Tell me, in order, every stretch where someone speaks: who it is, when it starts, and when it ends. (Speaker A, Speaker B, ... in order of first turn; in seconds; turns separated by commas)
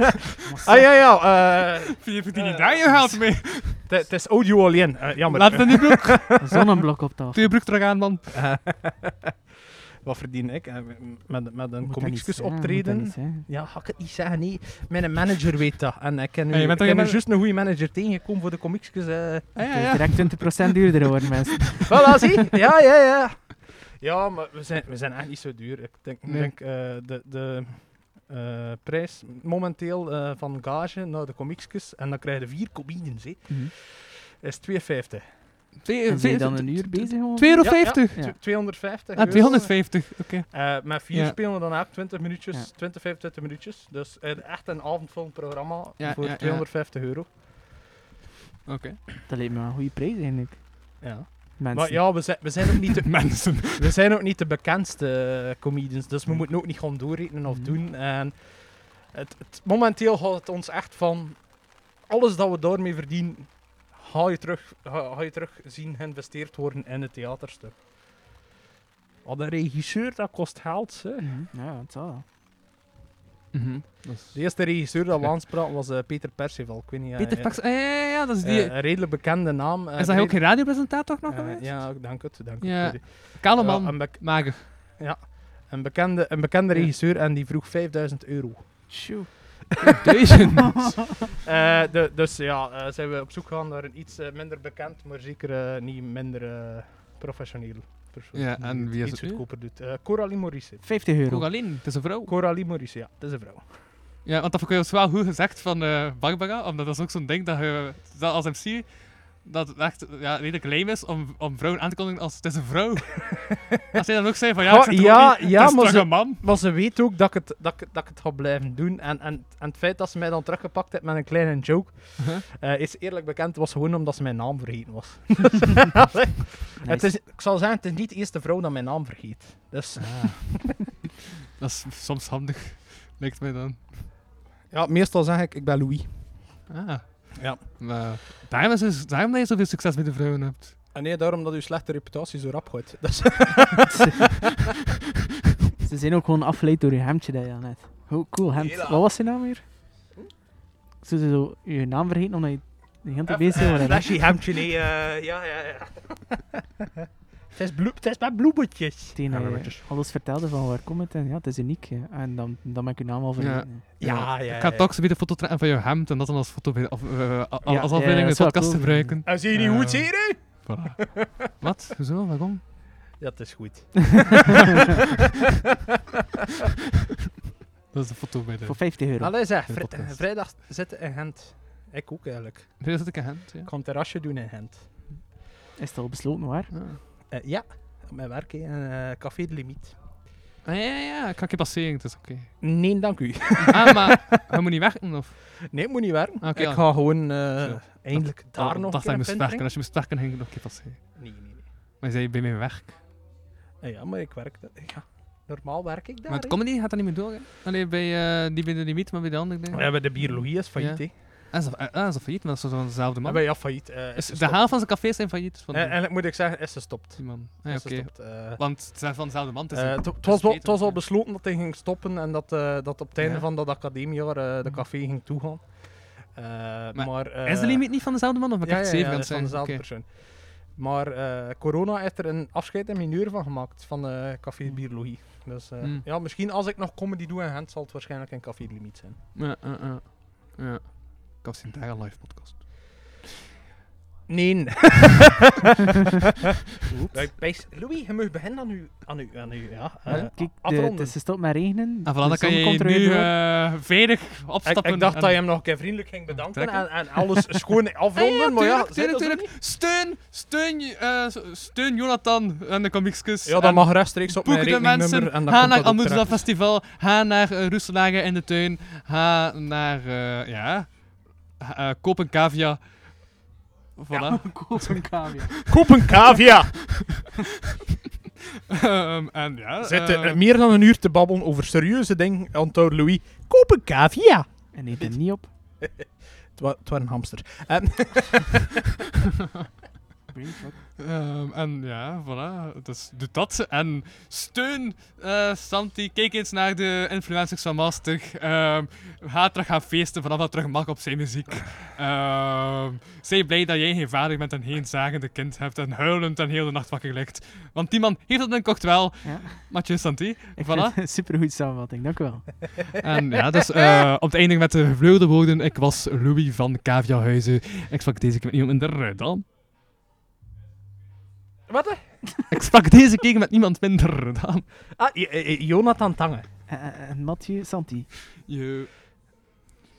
Speaker A: 0.5-1.0, Speaker B: 0.6-6.4, Speaker C: 2.0-3.9, Speaker C: 5.3-6.4, Speaker A: 6.4-7.5, Speaker C: 7.3-8.4, Speaker B: 8.3-9.3, Speaker B: 10.0-19.6, Speaker A: 11.8-13.5, Speaker C: 16.5-17.2, Speaker C: 19.6-20.8, Speaker A: 19.7-22.2, Speaker B: 21.9-35.8, Speaker C: 26.2-26.5, Speaker C: 35.8-41.4, Speaker A: 36.1-39.4, Speaker B: 37.6-47.4, Speaker C: 46.0-46.7, Speaker C: 48.7-49.0, Speaker A: 49.3-52.4, Speaker B: 51.0-67.8, Speaker C: 52.9-53.9, Speaker A: 56.3-56.8, Speaker A: 57.5-57.8, Speaker B: 69.2-71.3, Speaker A: 71.2-72.2, Speaker C: 73.5-74.7, Speaker B: 74.3-89.3, Speaker C: 77.2-78.8, Speaker C: 80.0-84.7, Speaker A: 88.9-89.3, Speaker C: 89.9-91.1, Speaker B: 91.2-101.0, Speaker C: 98.3-99.4, Speaker A: 100.8-101.5, Speaker C: 101.3-102.3, Speaker B: 102.2-103.9, Speaker C: 104.2-116.4, Speaker B: 114.6-130.7, Speaker A: 126.8-127.2, Speaker C: 130.0-130.9, Speaker C: 131.6-134.1, Speaker B: 134.7-136.7, Speaker C: 136.7-140.8, Speaker B: 137.4-138.2, Speaker B: 140.9-144.3, Speaker A: 143.9-144.2, Speaker A: 145.8-149.7, Speaker B: 148.6-149.1, Speaker A: 151.0-154.4, Speaker B: 153.3-156.4, Speaker B: 157.5-159.8, Speaker A: 159.2-163.8, Speaker C: 163.4-172.6, Speaker B: 164.0-164.9, Speaker A: 167.6-169.2, Speaker B: 169.2-171.5, Speaker B: 173.2-174.6, Speaker C: 177.9-180.2, Speaker A: 178.7-179.4, Speaker B: 179.2-185.0, Speaker C: 182.8-183.7, Speaker A: 185.8-186.7, Speaker C: 186.7-187.0, Speaker B: 187.3-190.0, Speaker C: 190.6-192.8, Speaker B: 192.6-194.4, Speaker C: 193.6-195.5, Speaker B: 195.7-199.7, Speaker C: 196.4-201.2, Speaker B: 201.2-201.7, Speaker C: 202.0-203.0, Speaker B: 203.8-206.6, Speaker C: 206.3-216.0, Speaker B: 209.7-211.2, Speaker B: 213.2-219.2, Speaker C: 217.2-221.0, Speaker B: 219.7-239.2, Speaker C: 223.2-223.5, Speaker C: 226.9-229.8, Speaker C: 235.8-236.1, Speaker C: 239.3-242.7, Speaker B: 244.3-245.5, Speaker A: 246.9-247.2, Speaker B: 247.1-251.2, Speaker A: 250.1-253.3, Speaker C: 252.0-255.5, Speaker B: 254.7-259.5, Speaker C: 256.3-257.1, Speaker C: 258.2-273.4, Speaker B: 263.4-266.5, Speaker C: 274.0-277.2, Speaker A: 274.1-275.6, Speaker B: 275.7-277.2, Speaker C: 278.7-280.4, Speaker B: 279.8-288.8, Speaker A: 284.7-285.5, Speaker A: 290.3-290.8, Speaker C: 291.0-311.0, Speaker A: 309.2-312.9, Speaker C: 313.0-319.4, Speaker B: 321.7-322.2, Speaker C: 322.5-324.6, Speaker B: 325.0-326.5, Speaker A: 326.7-328.2, Speaker C: 328.4-328.9